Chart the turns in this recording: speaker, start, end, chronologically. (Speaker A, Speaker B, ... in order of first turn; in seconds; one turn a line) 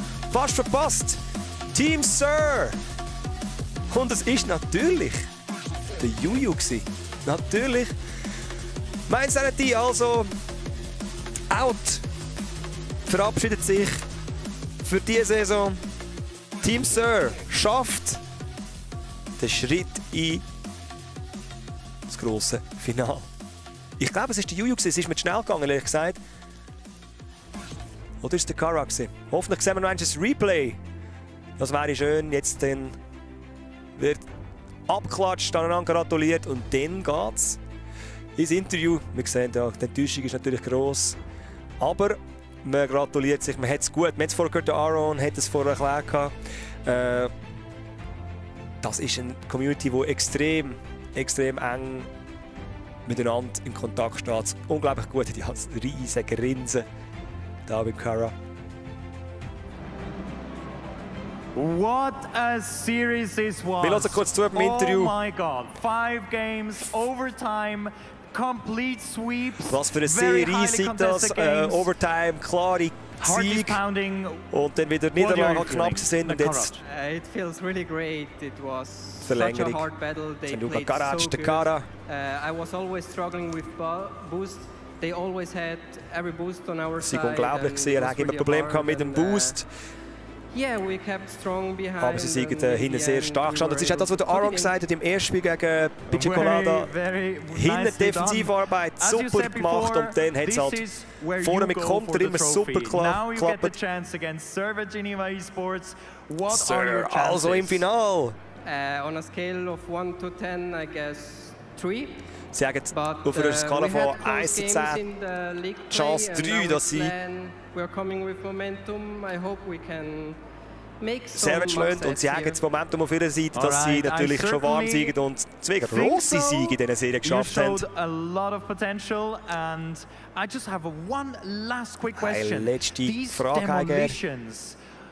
Speaker A: 0.3-1.2
Speaker A: 1.7-2.8
Speaker A: 3.9-5.3
Speaker A: 5.9-7.9
Speaker A: 9.1-10.3
Speaker A: 11.5-12.1
Speaker A: 13.1-14.0
Speaker A: 14.8-15.8
Speaker A: 16.6-18.2
Speaker A: 19.4-20.4
Speaker A: 22.1-23.3
Speaker A: 24.0-26.2
Speaker A: 28.2-30.8
Speaker A: 31.6-33.0
Speaker A: 34.0-34.2
Speaker A: 34.9-37.6
Speaker A: 38.4-41.2
Speaker A: 41.8-47.3
Speaker A: 48.8-52.1
Speaker A: 53.0-56.9
Speaker A: 57.6-58.3
Speaker B: 61.5-71.9
Speaker A: 63.8-65.2
Speaker A: 69.7-73.8
Speaker B: 73.2-74.5
Speaker A: 74.5-76.8
Speaker B: 75.2-76.8
Speaker C: 76.8-89.6
Speaker A: 79.2-79.8
Speaker A: 80.5-81.9
Speaker A: 87.0-89.7
Speaker C: 90.5-94.8
Speaker A: 92.0-96.9
Speaker B: 96.1-107.8
Speaker A: 97.5-100.8
Speaker A: 101.4-103.7
Speaker A: 106.5-108.4
Speaker C: 108.6-112.2
Speaker A: 112.5-115.0
Speaker C: 112.9-120.4
Speaker A: 115.9-117.2
Speaker C: 121.0-122.6
Speaker A: 121.3-127.9
Speaker B: 123.5-125.1
Speaker B: 125.8-134.8
Speaker A: 132.1-134.2